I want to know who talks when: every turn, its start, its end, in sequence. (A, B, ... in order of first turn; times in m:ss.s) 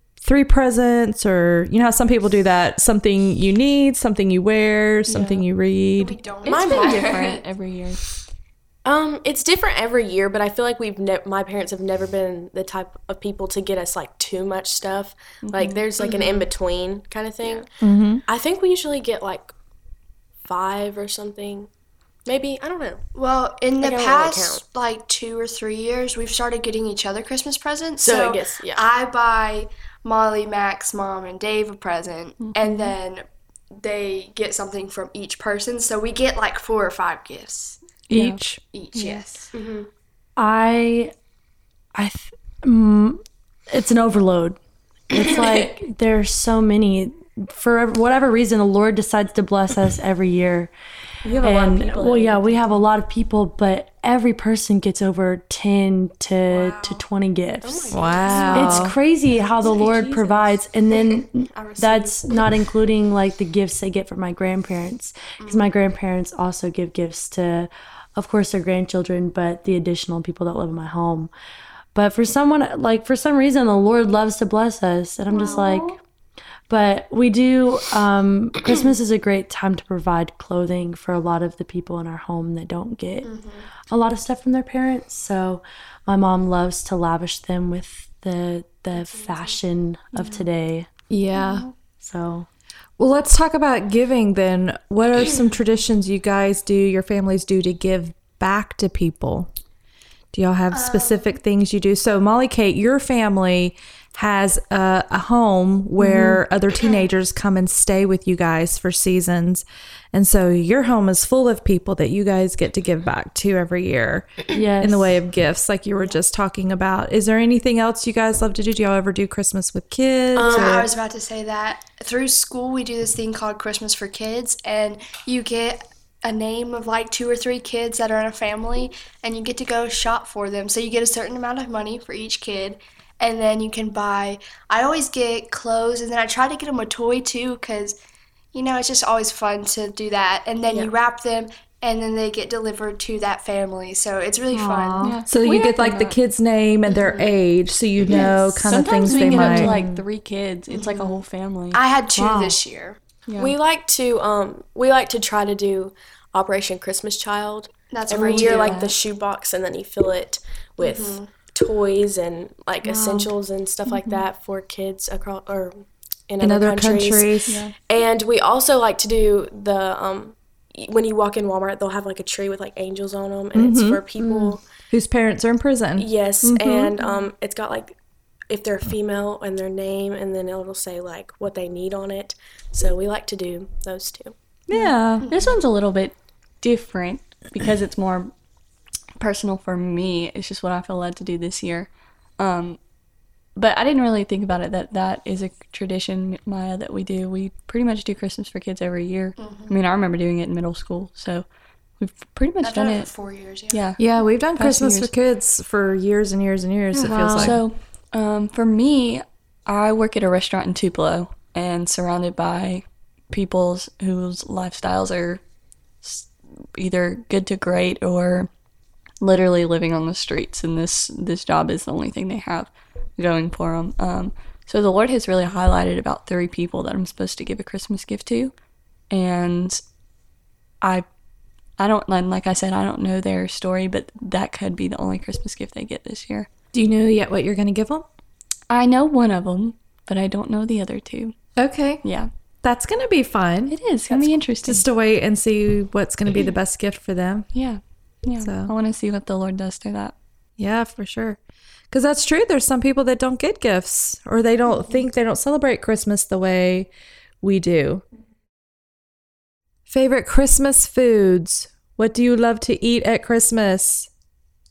0:00.2-0:06.2 A
0:05.1-0:05.4 B
0:06.0-0:07.4 C
0:06.4-0:08.0 B
0:06.4-0:07.4 D
0:08.8-0:17.7 D
0:15.4-0:15.8 B
0:16.0-0:16.4 C
0:17.8-0:18.2 A
0:18.3-0:19.5 D
0:20.4-0:21.7 D
0:22.2-0:23.0 D
0:23.1-0:37.8 C
0:23.8-0:24.6 D
0:28.0-0:28.9 D
0:32.4-0:32.9 B
0:38.1-0:38.6 A
0:38.1-0:38.4 B
0:38.7-0:39.5 C
0:38.9-0:39.2 B
0:39.5-0:39.9 D
0:40.4-0:41.1 E
0:41.9-0:44.6 E
0:45.1-0:50.7 E
0:45.2-0:45.6 C
0:51.2-0:52.8 B
0:51.3-0:51.6 D
0:51.4-1:11.3 E
0:56.5-0:57.0 D
0:57.6-0:59.0 D
0:57.9-0:58.9 A
0:59.6-1:00.5 D
1:01.5-1:02.4 D
1:05.4-1:05.7 C
1:11.9-1:16.0 E
1:15.3-1:15.9 B
1:16.7-1:23.3 E
1:23.2-1:23.7 C
1:23.9-1:30.9 E
1:29.1-1:29.5 C
1:30.2-1:30.4 B
1:31.1-1:31.6 A
1:31.4-1:31.7 B
1:32.0-1:32.5 E
1:33.0-1:39.5 A
1:40.3-2:00.9 A
1:40.7-1:41.4 C
1:46.0-1:46.4 E
1:54.5-1:55.2 E
2:00.3-2:00.9 D
2:00.4-2:18.0 C
2:18.5-2:25.1 C
2:24.5-2:25.2 E
2:25.0-2:26.2 B
2:25.3-2:29.8 A
2:26.9-2:27.3 C
2:28.1-2:31.8 B
2:28.1-2:28.5 C
2:29.1-2:30.0 E
2:30.7-2:33.0 C
2:32.2-2:32.6 E
2:33.3-2:33.6 B
2:33.4-2:54.6 D
2:37.9-2:38.9 C
2:38.2-2:39.0 B
2:40.8-2:41.3 C
2:43.8-2:44.2 B
2:46.4-2:47.6 A
2:47.5-2:47.7 B
2:53.5-2:54.0 A
2:54.2-2:54.6 E
2:54.9-2:56.9 A
2:56.0-2:58.0 D
2:58.5-3:04.3 D
3:04.7-3:05.2 A
3:04.7-3:08.3 B
3:05.2-3:05.5 C
3:09.2-3:12.8 B
3:13.6-3:21.4 B
3:19.4-3:19.7 C
3:22.0-3:23.1 B
3:22.6-3:23.8 C
3:23.7-3:24.0 B
3:24.0-3:27.6 A
3:24.5-3:25.1 B
3:26.9-3:35.4 B
3:36.0-3:38.5 B
3:39.2-3:48.5 B
3:49.1-3:49.8 B
3:51.8-3:56.5 B
3:56.7-3:58.0 A
3:58.7-4:01.3 B
4:01.6-4:02.0 A
4:02.0-4:02.3 B
4:02.6-4:03.8 A
4:03.7-4:04.8 B
4:04.6-4:07.5 A
4:07.5-4:10.1 B
4:08.4-4:08.7 A
4:10.6-4:11.4 A
4:11.9-4:16.9 A
4:17.4-4:18.0 A
4:19.9-4:24.1 A